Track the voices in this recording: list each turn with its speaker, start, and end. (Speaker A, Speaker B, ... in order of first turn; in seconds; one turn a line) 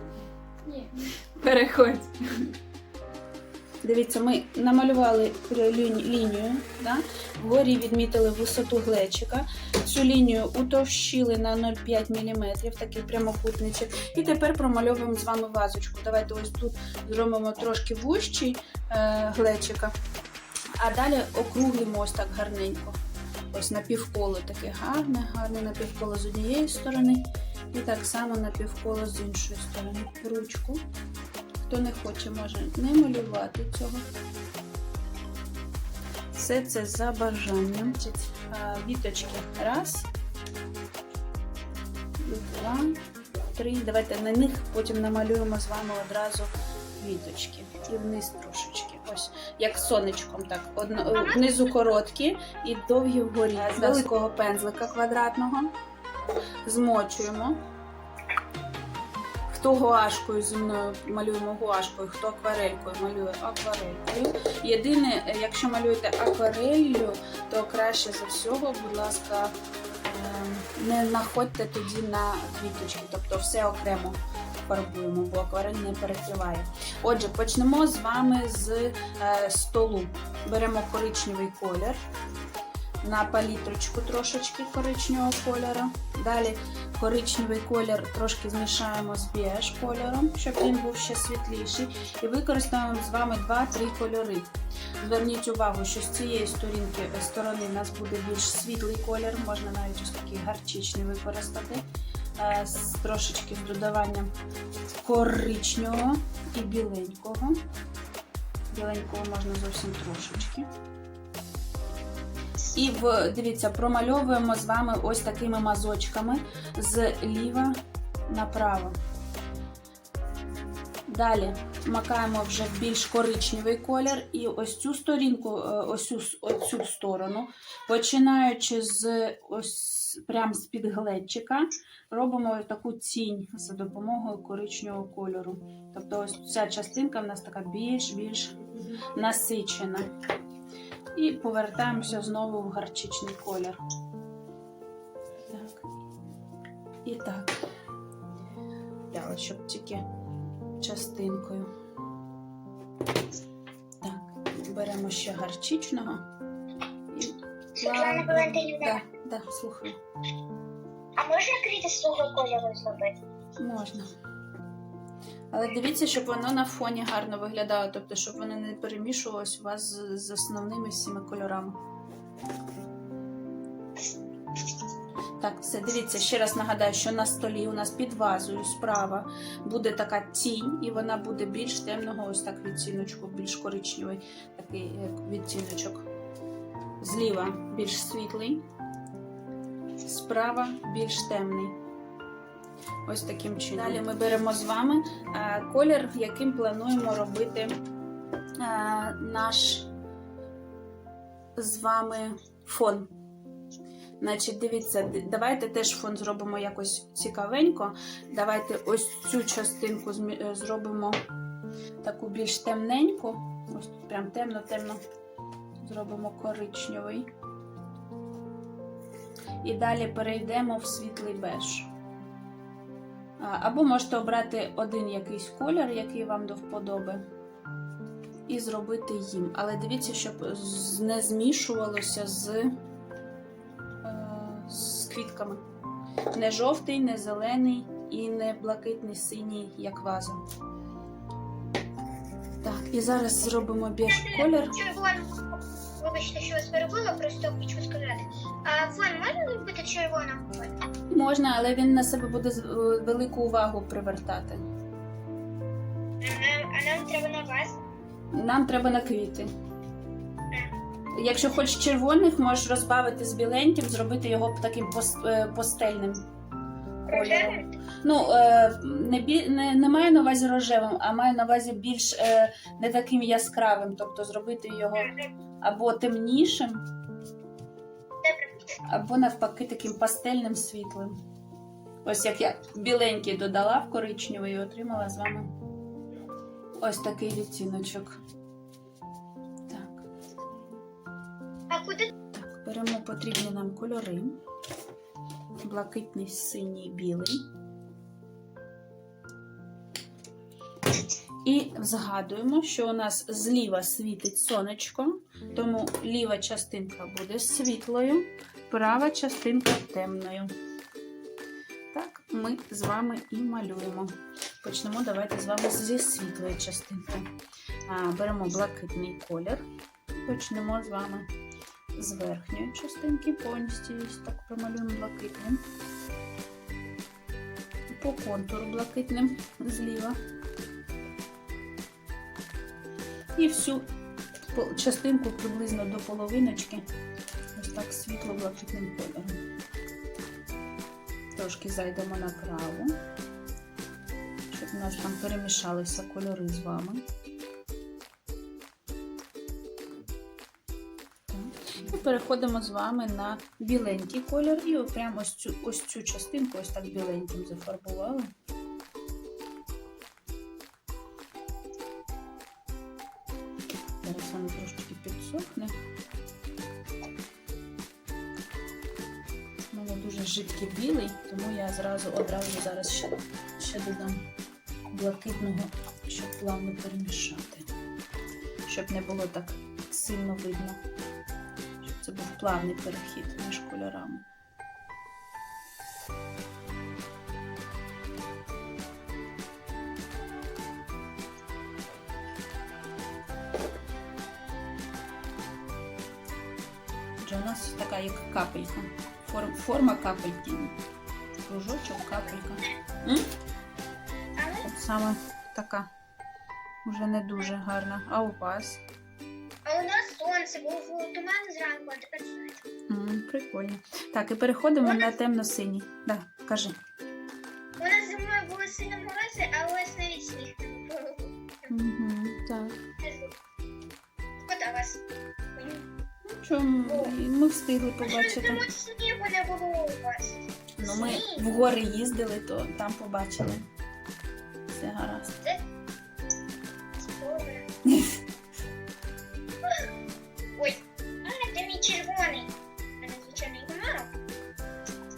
Speaker A: 0.8-2.2
Speaker A: 3.8-19.9
Speaker A: 20.8-23.0
Speaker A: 23.5-30.8
Speaker A: 31.7-34.0
Speaker A: 36.4-40.1
Speaker A: 42.2-43.0
Speaker A: 43.5-55.7
Speaker B: 51.1-51.7
Speaker A: 56.6-57.6
Speaker A: 59.5-82.0
Speaker A: 83.0-101.8
Speaker A: 102.4-104.3
Speaker A: 105.0-107.6
Speaker A: 108.7-110.7
Speaker A: 112.7-119.0
Speaker A: 121.1-138.6
Speaker A: 139.1-140.1
Speaker A: 141.2-143.8
Speaker A: 145.5-145.9
Speaker A: 147.1-147.6
Speaker A: 149.1-150.0
Speaker A: 150.8-151.7
Speaker A: 154.0-156.2
Speaker A: 157.1-160.0
Speaker B: 157.8-159.0
Speaker B: 161.2-163.2
Speaker A: 163.6-164.1
Speaker A: 165.5-171.8
Speaker A: 175.4-186.1
Speaker A: 187.0-188.6
Speaker A: 190.0-191.8
Speaker A: 193.1-197.8
Speaker A: 198.6-199.9
Speaker A: 201.6-203.1
Speaker A: 204.2-211.2
Speaker A: 212.0-215.0
Speaker A: 215.8-217.3
Speaker A: 219.6-221.9
Speaker A: 223.4-227.2
Speaker A: 228.5-232.7
Speaker A: 234.0-235.6
Speaker A: 236.3-240.4
Speaker A: 242.6-244.8
Speaker B: 244.1-250.8
Speaker A: 251.1-254.6
Speaker B: 256.2-257.8
Speaker A: 258.3-259.5
Speaker A: 261.1-266.2
Speaker A: 267.1-276.9
Speaker B: 267.1-267.7
Speaker B: 275.0-275.3
Speaker B: 278.2-278.6
Speaker A: 278.9-281.1
Speaker A: 282.1-285.5
Speaker A: 286.8-288.2
Speaker A: 289.7-290.1
Speaker B: 291.7-292.1
Speaker A: 292.3-294.4
Speaker A: 295.6-297.4
Speaker A: 301.4-310.5
Speaker A: 311.9-317.3
Speaker A: 317.9-319.6
Speaker A: 320.2-321.3
Speaker A: 321.9-325.6
Speaker A: 327.9-330.2
Speaker A: 333.4-333.9
Speaker A: 334.5-336.9
Speaker A: 337.6-339.4
Speaker A: 341.4-342.9
Speaker A: 344.5-347.1
Speaker A: 351.3-358.3
Speaker A: 364.0-365.8
Speaker A: 369.7-374.2
Speaker A: 374.9-377.7
Speaker A: 378.7-380.8
Speaker A: 381.8-384.2
Speaker A: 397.2-400.8
Speaker A: 401.4-403.3
Speaker B: 402.0-402.4
Speaker B: 404.4-404.7
Speaker A: 404.6-405.9
Speaker A: 406.9-408.8
Speaker B: 409.6-412.6
Speaker A: 412.9-416.8
Speaker B: 414.8-415.2
Speaker B: 417.8-421.7
Speaker A: 421.7-422.8
Speaker B: 423.0-423.3
Speaker B: 424.4-425.0
Speaker B: 425.6-425.9
Speaker A: 426.4-428.6
Speaker B: 426.9-427.1
Speaker B: 428.0-431.4
Speaker A: 430.8-433.6
Speaker A: 434.7-435.4
Speaker B: 437.0-437.7
Speaker A: 437.9-438.2
Speaker B: 440.6-444.1